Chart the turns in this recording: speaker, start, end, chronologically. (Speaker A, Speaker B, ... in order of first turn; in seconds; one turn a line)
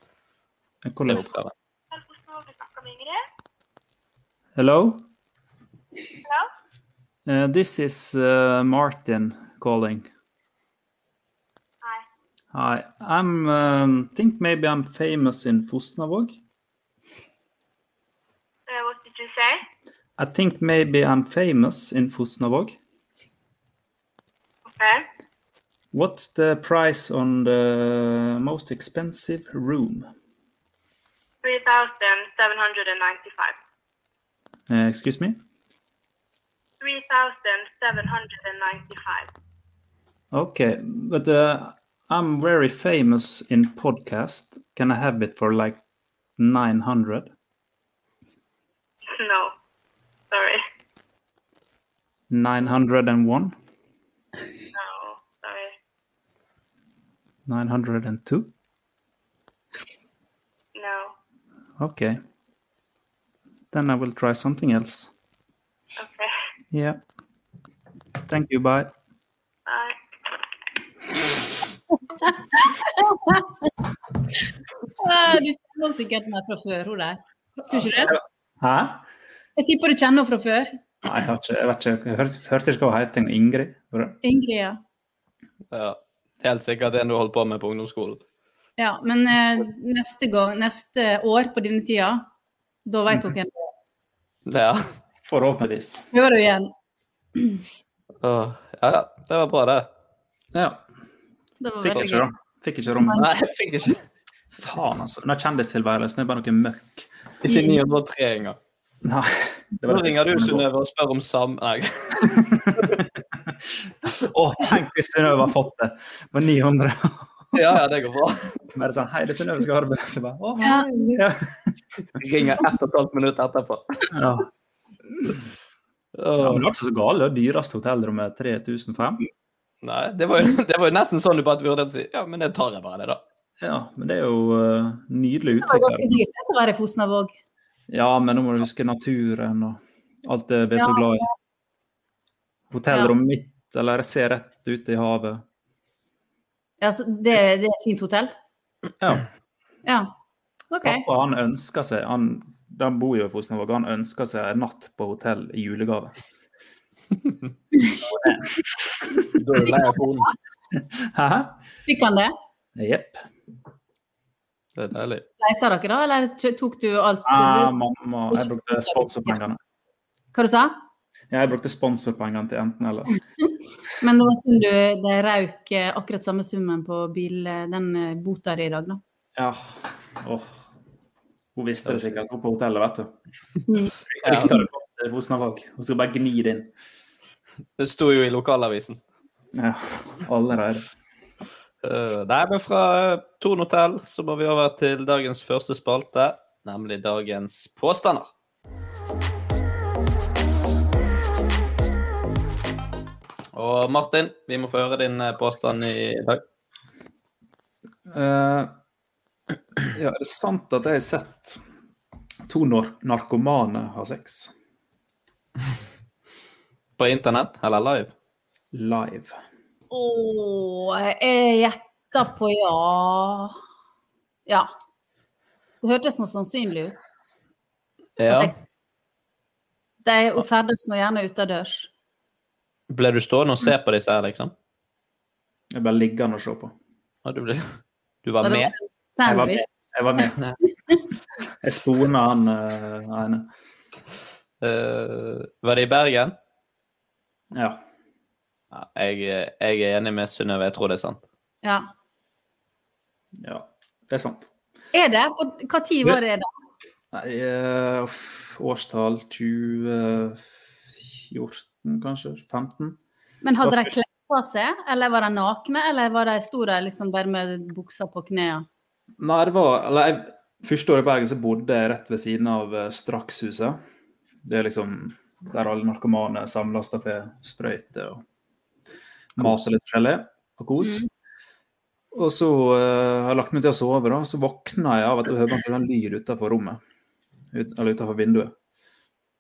Speaker A: 0.8-1.3
Speaker B: 1.1-1.5
Speaker C: 1.9-3.2
Speaker A: 4.6-5.1
Speaker A: 7.3-10.1
Speaker A: 12.5-16.4
Speaker C: 18.7-19.6
Speaker A: 20.2-22.8
Speaker C: 24.7-25.1
Speaker A: 25.9-30.1
Speaker C: 31.4-33.5
Speaker A: 34.7-35.4
Speaker C: 36.8-39.3
Speaker A: 40.3-45.8
Speaker A: 46.4-47.3
Speaker C: 49.2-49.5
Speaker C: 50.3-50.6
Speaker A: 52.3-53.5
Speaker C: 54.7-55.7
Speaker A: 57.5-58.5
Speaker C: 60.8-61.1
Speaker A: 61.8-62.2
Speaker A: 63.7-65.1
Speaker C: 66.0-66.3
Speaker A: 66.7-67.0
Speaker A: 68.3-68.9
Speaker C: 69.7-70.0
Speaker D: 72.2-73.7
Speaker D: 75.0-78.1
Speaker A: 78.0-79.0
Speaker D: 79.6-80.7
Speaker A: 81.0-84.2
Speaker D: 84.2-84.8
Speaker B: 85.7-88.2
Speaker D: 88.8-92.2
Speaker D: 92.9-93.7
Speaker B: 94.5-94.9
Speaker A: 95.3-96.1
Speaker D: 96.1-96.7
Speaker D: 97.4-97.6
Speaker B: 98.2-99.9
Speaker A: 100.5-100.9
Speaker D: 101.6-102.3
Speaker A: 101.8-103.2
Speaker B: 103.1-104.0
Speaker A: 104.6-107.1
Speaker B: 107.4-108.6
Speaker D: 107.5-107.8
Speaker A: 109.0-110.7
Speaker B: 109.9-112.9
Speaker A: 112.2-113.5
Speaker A: 114.1-117.5
Speaker B: 117.5-118.6
Speaker A: 118.8-121.4
Speaker D: 120.6-121.2
Speaker B: 122.2-124.1
Speaker A: 124.1-124.5
Speaker A: 125.1-125.4
Speaker B: 126.2-126.7
Speaker A: 126.4-129.2
Speaker B: 129.8-133.2
Speaker A: 133.6-136.1
Speaker D: 135.4-137.3
Speaker A: 137.9-141.3
Speaker D: 140.8-141.1
Speaker A: 142.7-145.4
Speaker D: 146.8-148.3
Speaker A: 149.0-149.3
Speaker D: 149.8-150.1
Speaker D: 150.7-151.1
Speaker A: 150.8-156.2
Speaker A: 157.9-159.2
Speaker B: 159.3-160.3
Speaker A: 161.0-161.6
Speaker D: 161.9-162.3
Speaker A: 162.8-163.2
Speaker B: 164.8-165.2
Speaker D: 165.4-167.7
Speaker A: 167.3-169.6
Speaker D: 168.3-169.4
Speaker D: 170.3-170.8
Speaker A: 171.3-173.2
Speaker D: 173.5-179.0
Speaker A: 179.4-180.6
Speaker A: 181.6-183.1
Speaker B: 181.9-182.2
Speaker D: 183.7-183.9
Speaker A: 184.1-186.7
Speaker B: 184.2-184.5
Speaker B: 187.8-189.0
Speaker A: 189.5-190.9
Speaker B: 191.8-198.3
Speaker B: 203.5-206.4
Speaker A: 208.1-208.7
Speaker A: 209.8-211.6
Speaker A: 212.5-214.5
Speaker B: 217.0-218.1
Speaker A: 218.7-219.4
Speaker D: 219.9-223.6
Speaker D: 225.8-227.0
Speaker B: 228.2-228.5
Speaker D: 228.2-228.5
Speaker D: 230.0-231.9
Speaker B: 232.9-234.5
Speaker A: 235.7-236.7
Speaker B: 237.2-238.7
Speaker D: 238.4-239.6
Speaker A: 239.2-240.4
Speaker A: 241.6-243.5
Speaker B: 244.6-246.3
Speaker A: 247.5-247.8
Speaker B: 248.7-251.2
Speaker D: 251.6-251.9
Speaker A: 253.4-254.5
Speaker D: 254.9-256.5
Speaker A: 257.1-260.4
Speaker A: 261.0-263.0
Speaker D: 263.4-268.7
Speaker A: 263.6-263.9
Speaker A: 269.2-273.8
Speaker A: 274.4-278.2
Speaker A: 279.4-281.1
Speaker B: 279.4-279.7
Speaker D: 280.8-281.1
Speaker A: 282.1-286.8
Speaker A: 287.5-288.5